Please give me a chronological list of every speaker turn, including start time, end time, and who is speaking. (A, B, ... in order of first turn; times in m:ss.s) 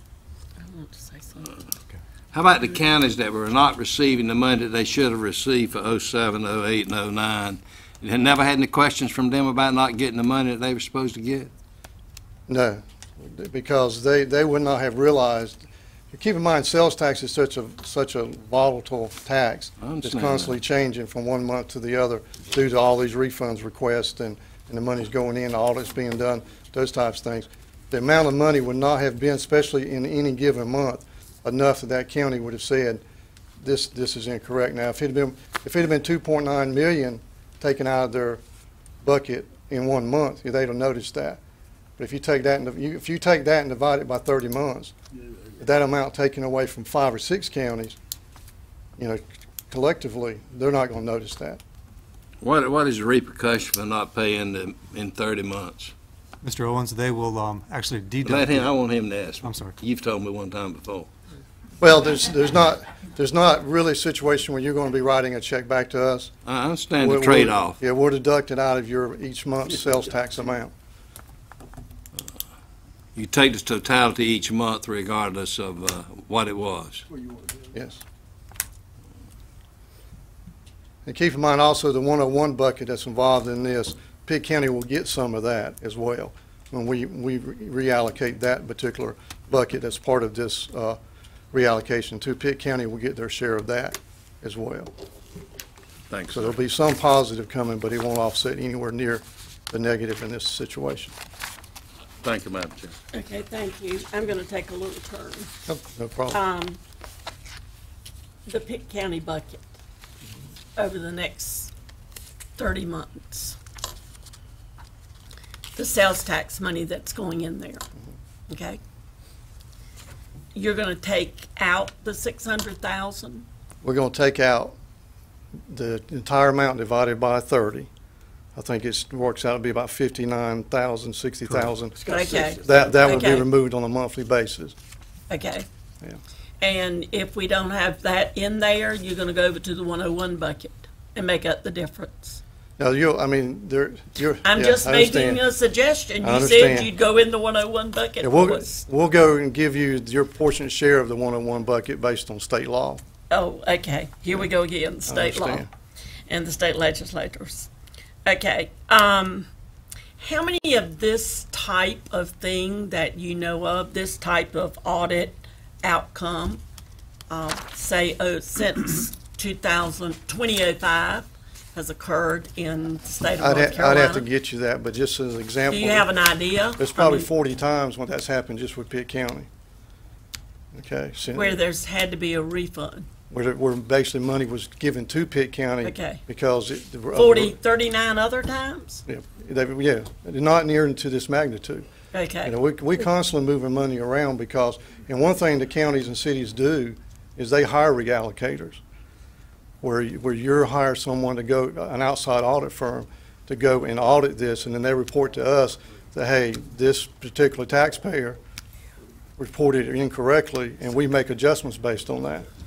0:00.6-0:01.6 A
0:02.3-0:11.5 B
0:12.5-0:33.0 C
0:19.8-0:20.5 B
0:33.6-0:38.4 C
0:39.0-0:41.4 C
0:42.0-0:44.9 C
0:45.6-0:48.0 C
0:49.0-0:51.6 C
0:52.4-0:55.9 B
0:56.4-0:58.7 D
0:58.2-1:01.1 B
0:59.4-0:59.7 D
1:01.8-1:06.3 C
1:06.4-1:07.8 B
1:07.0-1:10.7 C
1:13.1-1:17.0 B
1:17.7-1:18.0 C
1:21.0-1:31.0 C
1:31.5-1:34.9 C
1:36.1-1:36.5 B
1:36.3-1:41.1 C
1:42.2-1:42.9 B
1:43.1-1:45.5 A
1:45.7-1:46.4 C
1:46.3-1:46.8 A
1:48.5-1:49.6 A
1:50.8-1:51.7 A
1:52.6-1:53.6 A
1:55.7-1:57.8 A
1:58.5-1:58.8 A
2:00.5-2:03.4 A
2:03.8-2:04.8 C
2:05.7-2:07.9 C
2:08.5-2:14.8 C
2:12.0-2:13.5 A
2:15.3-2:15.6 A
2:16.6-2:22.4 A
2:22.8-2:25.4 C
2:24.4-2:28.8 A
2:26.2-2:26.9 C
2:28.2-2:33.0 C
2:33.3-2:35.7 A
2:35.1-2:35.7 C
2:36.3-2:37.7 A
2:38.2-2:39.5 A
2:40.2-2:46.6 A
2:47.3-2:54.3 A
2:53.4-2:56.1 C
2:55.7-2:57.3 A
2:56.8-2:59.5 C
3:00.7-3:01.6 C
3:01.3-3:03.1 A
3:03.3-3:07.5 C
3:05.8-3:06.2 A
3:07.1-3:09.0 A
3:09.1-3:11.9 C
3:12.1-3:12.5 A
3:12.4-3:18.8 C
3:19.8-3:28.4 C
3:29.4-3:32.4 C